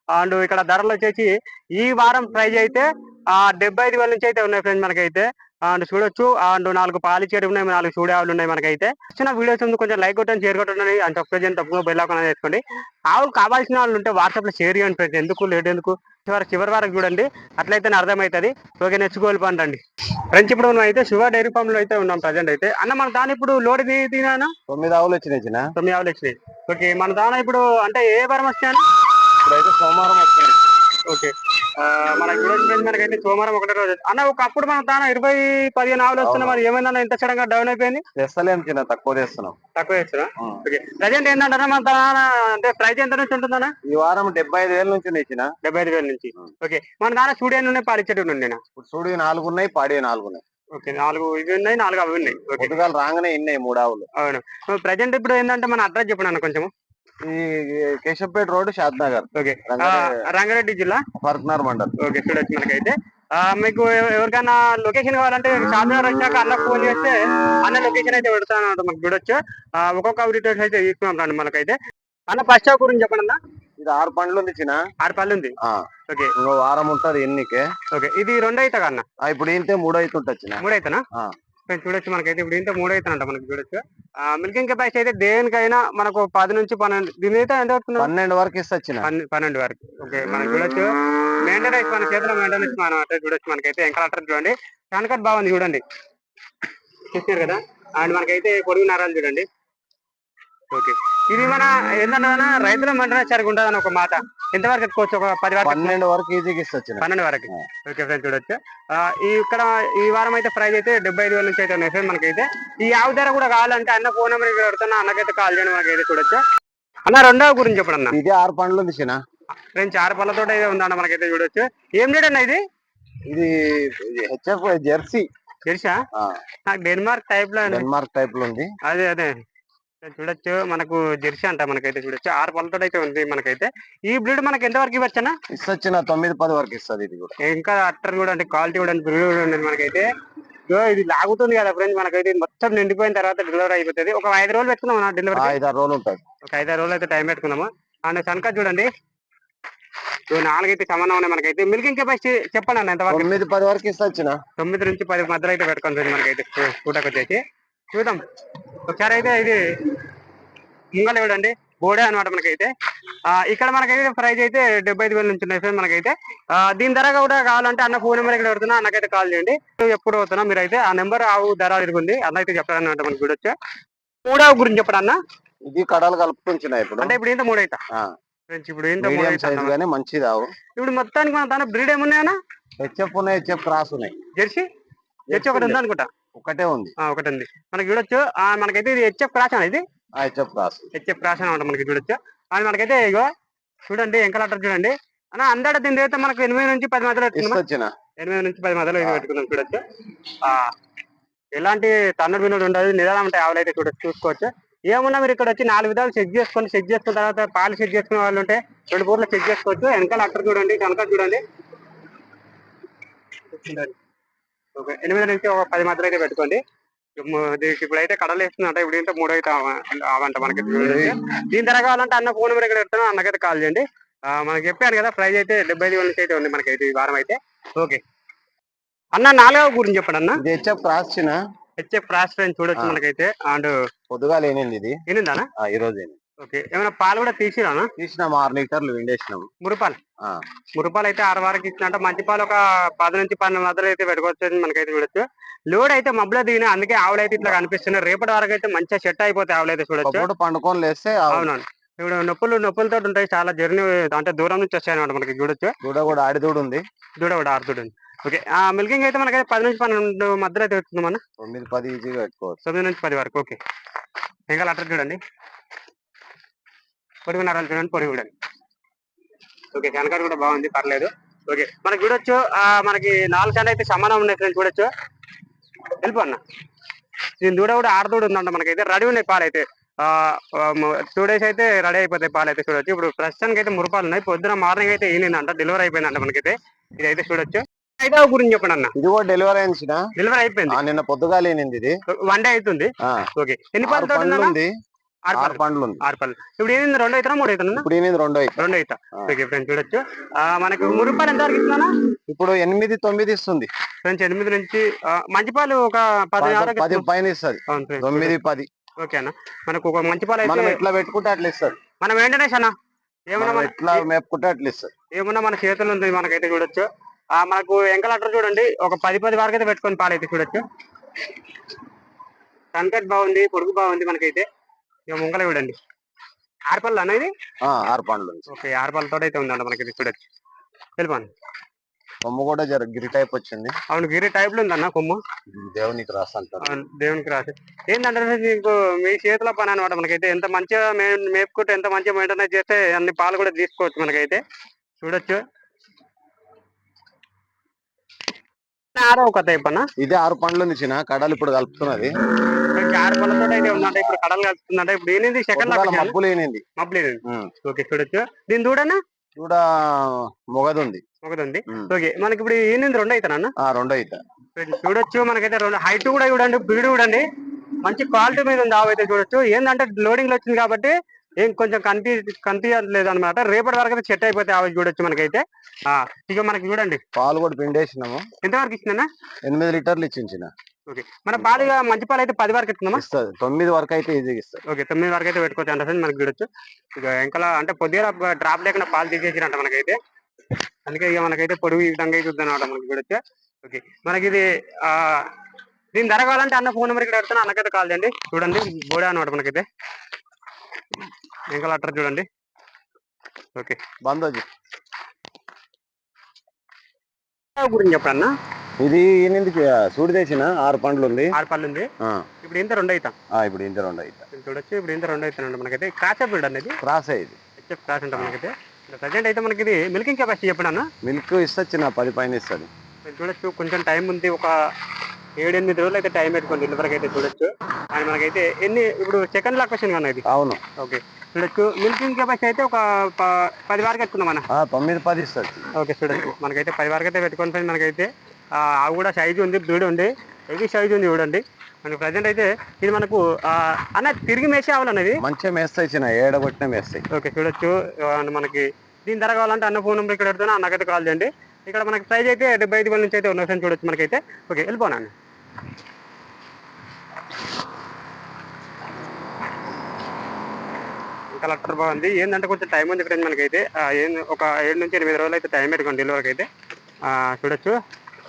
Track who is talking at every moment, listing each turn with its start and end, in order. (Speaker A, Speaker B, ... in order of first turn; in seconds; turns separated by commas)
Speaker A: 0.1-19.8, Speaker A: 20.3-24.5, Speaker B: 24.7-25.7, Speaker A: 25.8-28.8, Speaker B: 29.4-30.6, Speaker A: 31.1-38.0, Speaker B: 36.2-36.6, Speaker B: 38.2-39.6, Speaker A: 39.8-43.7, Speaker B: 40.4-40.6, Speaker B: 43.8-45.5, Speaker A: 45.6-48.6, Speaker B: 48.8-50.4, Speaker A: 50.8-52.8, Speaker B: 52.5-54.1, Speaker A: 54.2-56.7, Speaker B: 57.2-60.2, Speaker A: 59.4-61.0, Speaker B: 61.2-62.0, Speaker A: 62.0-71.8, Speaker A: 72.3-73.4, Speaker B: 73.8-74.8, Speaker A: 75.0-75.5, Speaker B: 75.6-75.9, Speaker B: 76.4-77.7, Speaker A: 77.9-79.0, Speaker B: 79.2-81.3, Speaker A: 80.6-81.0, Speaker A: 81.7-88.1, Speaker B: 88.0-89.1, Speaker A: 89.0-95.8, Speaker A: 97.0-99.5, Speaker A: 100.7-106.0, Speaker B: 105.6-107.7, Speaker A: 107.0-116.4, Speaker A: 117.1-118.2, Speaker B: 118.1-119.2, Speaker A: 119.7-122.6, Speaker B: 123.3-125.3, Speaker A: 125.7-126.0, Speaker B: 126.2-126.4, Speaker A: 126.7-127.9, Speaker B: 127.7-128.7, Speaker A: 128.9-129.3, Speaker A: 130.0-135.3, Speaker B: 135.5-137.4, Speaker A: 137.4-140.1, Speaker A: 140.7-145.6, Speaker B: 145.3-146.2, Speaker A: 146.5-148.9, Speaker A: 150.3-153.4, Speaker B: 153.1-154.4, Speaker A: 154.6-160.0, Speaker A: 161.0-162.7, Speaker A: 163.3-173.5, Speaker A: 174.2-175.2, Speaker B: 175.7-177.2, Speaker A: 177.0-177.8, Speaker A: 178.5-179.8, Speaker B: 179.0-180.5, Speaker A: 180.8-182.4, Speaker B: 182.8-184.2, Speaker A: 184.4-184.7, Speaker B: 185.3-185.8, Speaker A: 185.3-186.1, Speaker B: 186.4-186.9, Speaker A: 187.0-189.8, Speaker B: 190.2-190.9, Speaker A: 190.9-193.3, Speaker A: 193.9-197.6, Speaker B: 197.3-197.9, Speaker A: 198.2-200.7, Speaker B: 199.0-199.2, Speaker A: 201.6-211.4, Speaker A: 213.5-214.0, Speaker A: 214.8-216.6, Speaker A: 217.2-228.0, Speaker B: 220.6-221.2, Speaker A: 229.1-230.4, Speaker B: 230.4-231.4, Speaker A: 231.8-233.8, Speaker B: 232.8-233.0, Speaker B: 234.1-235.0, Speaker A: 235.1-235.5, Speaker B: 235.6-236.2, Speaker A: 236.4-237.9, Speaker B: 238.0-239.5, Speaker A: 239.6-240.0, Speaker A: 240.8-250.3, Speaker B: 250.0-251.5, Speaker A: 251.3-255.7, Speaker B: 255.8-256.8, Speaker A: 257.2-261.2, Speaker B: 261.4-262.6, Speaker A: 262.6-263.6, Speaker A: 264.5-265.2, Speaker A: 267.2-268.3, Speaker A: 269.7-274.9, Speaker A: 275.9-276.4, Speaker A: 277.4-288.9, Speaker B: 289.0-290.1, Speaker A: 290.2-290.8, Speaker B: 290.7-291.9, Speaker A: 292.2-294.6, Speaker B: 293.0-293.3, Speaker B: 293.8-294.7, Speaker A: 295.3-297.9, Speaker B: 295.4-296.0, Speaker B: 297.8-298.6, Speaker A: 298.6-301.9, Speaker B: 302.3-303.7, Speaker A: 304.0-307.1, Speaker B: 306.4-308.7, Speaker A: 307.7-308.4, Speaker A: 309.0-310.8, Speaker B: 310.4-311.8, Speaker A: 312.0-312.7, Speaker A: 313.3-314.1, Speaker B: 313.4-314.9, Speaker A: 315.1-320.6, Speaker A: 322.7-324.5, Speaker A: 325.1-325.8, Speaker A: 326.7-327.3, Speaker B: 327.6-328.5, Speaker A: 328.5-330.2, Speaker A: 331.0-331.3, Speaker B: 332.2-333.8, Speaker A: 333.9-335.2, Speaker B: 335.5-336.8, Speaker A: 336.6-344.4, Speaker A: 345.0-345.4, Speaker A: 348.9-349.9, Speaker B: 350.0-352.1, Speaker A: 352.7-356.2, Speaker B: 355.5-356.6, Speaker A: 356.8-359.0, Speaker B: 357.3-357.5, Speaker B: 359.4-361.0, Speaker A: 361.2-363.5, Speaker B: 363.6-364.2, Speaker A: 364.6-367.3, Speaker A: 367.8-377.0, Speaker B: 377.1-378.3, Speaker A: 378.4-379.1, Speaker B: 379.4-380.5, Speaker A: 380.9-383.0, Speaker B: 381.3-381.7, Speaker B: 382.9-384.6, Speaker A: 384.7-390.0, Speaker A: 390.9-395.3, Speaker A: 395.9-399.7, Speaker A: 401.5-402.2, Speaker B: 404.0-404.5, Speaker A: 407.6-408.3, Speaker B: 408.8-411.3, Speaker A: 411.3-411.9, Speaker B: 412.0-412.3, Speaker A: 412.4-413.1, Speaker B: 413.3-414.3, Speaker A: 414.3-416.8, Speaker B: 416.8-417.4, Speaker A: 417.6-420.9, Speaker B: 421.0-422.7, Speaker A: 423.0-424.5, Speaker A: 425.4-430.2, Speaker B: 430.3-430.6, Speaker A: 430.8-434.5, Speaker B: 434.5-435.7, Speaker A: 435.8-445.2, Speaker B: 445.2-447.1, Speaker A: 447.1-455.1, Speaker A: 461.3-466.5, Speaker A: 467.0-467.8